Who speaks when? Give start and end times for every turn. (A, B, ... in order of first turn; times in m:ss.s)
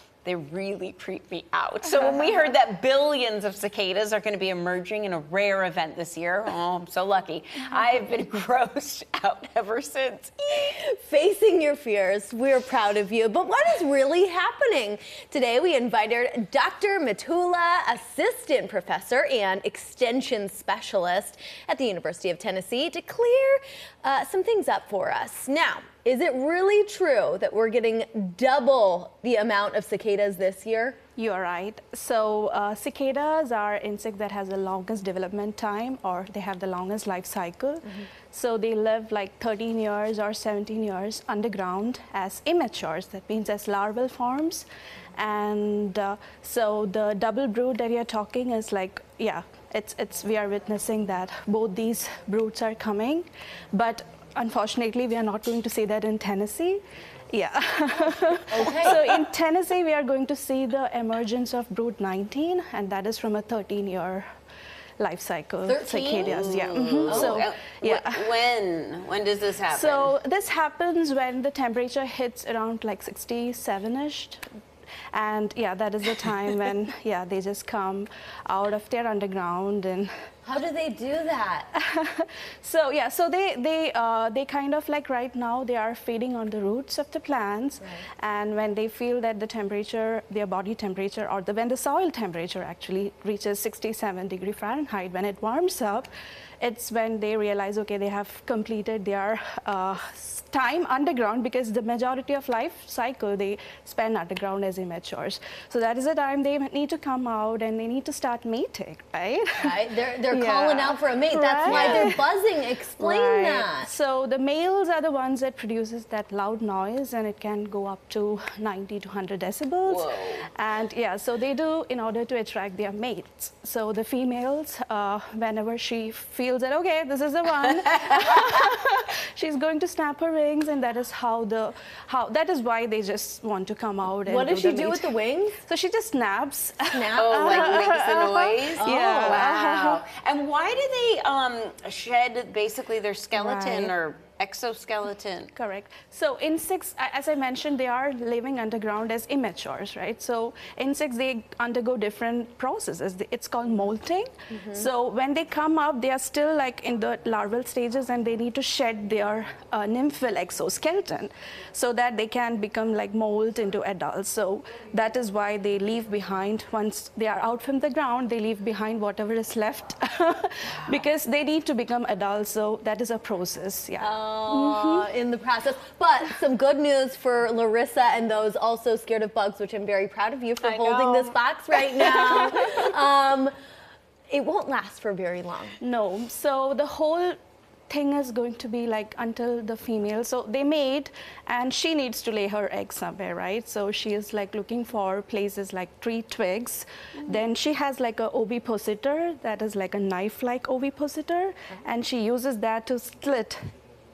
0:00.2-0:10.7 A
0:10.5-0:31.0 B
0:31.2-1:04.2 C
0:58.5-0:59.0 B
1:05.0-1:08.3 C
1:05.6-1:06.4 B
1:05.8-1:10.1 A
1:07.1-1:07.4 B
1:09.7-1:14.4 C
1:15.1-1:20.1 C
1:20.4-1:21.7 B
1:21.7-1:49.7 C
1:49.6-1:53.9 B
1:50.3-1:52.3 C
1:51.7-1:52.1 A
1:53.0-2:20.0 C
1:59.9-2:00.4 A
2:14.2-2:15.6 B
2:16.9-2:17.8 B
2:17.2-2:25.5 A
2:18.8-2:19.4 B
2:23.3-2:23.9 C
2:25.5-2:55.0 C
2:54.0-3:03.5 B
3:00.6-3:01.4 A
3:02.0-3:02.5 C
3:04.3-3:05.8 B
3:05.8-3:07.4 C
3:07.9-3:23.6 C